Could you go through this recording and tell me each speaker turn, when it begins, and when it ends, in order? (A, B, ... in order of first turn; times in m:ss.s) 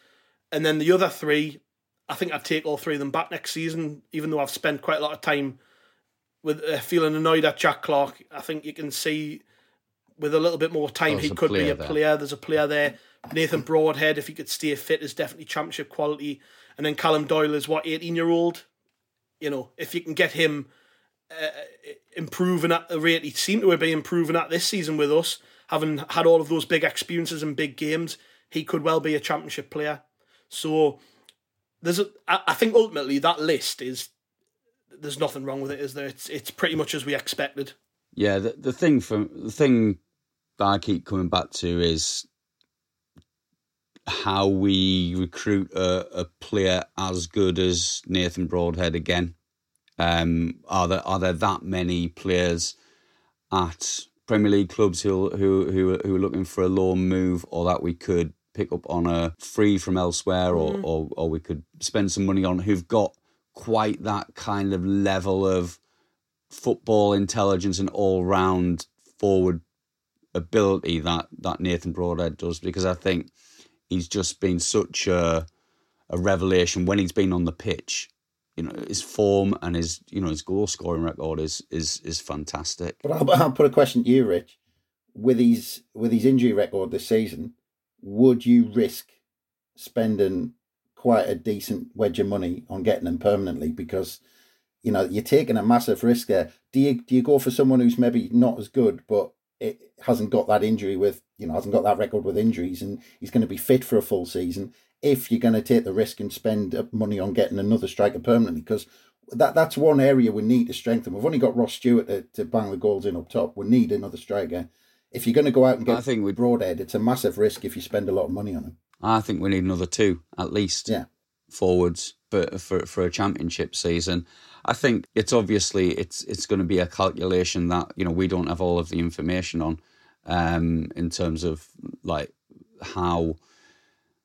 0:00.5-0:05.6 A
0:06.4-0:09.4 A
0:10.2-0:18.6 A
0:11.1-0:12.0 B
0:19.4-0:20.7 A
0:21.3-0:31.0 A
0:31.8-0:34.1 A
0:35.0-0:37.7 A
0:38.2-0:40.0 B
0:40.6-0:42.2 B
0:44.1-0:49.3 B
0:50.0-0:52.8 B
0:53.5-1:05.8 B
1:00.5-1:00.8 A
1:06.5-1:09.6 B
1:10.3-1:13.3 B
1:13.9-1:15.4 B
1:16.1-1:23.0 B
1:23.0-1:24.6 C
1:25.1-1:29.1 C
1:29.8-1:34.2 C
1:34.8-1:58.8 C
1:55.9-1:56.4 B
1:59.0-2:00.9 B
2:01.5-2:13.4 B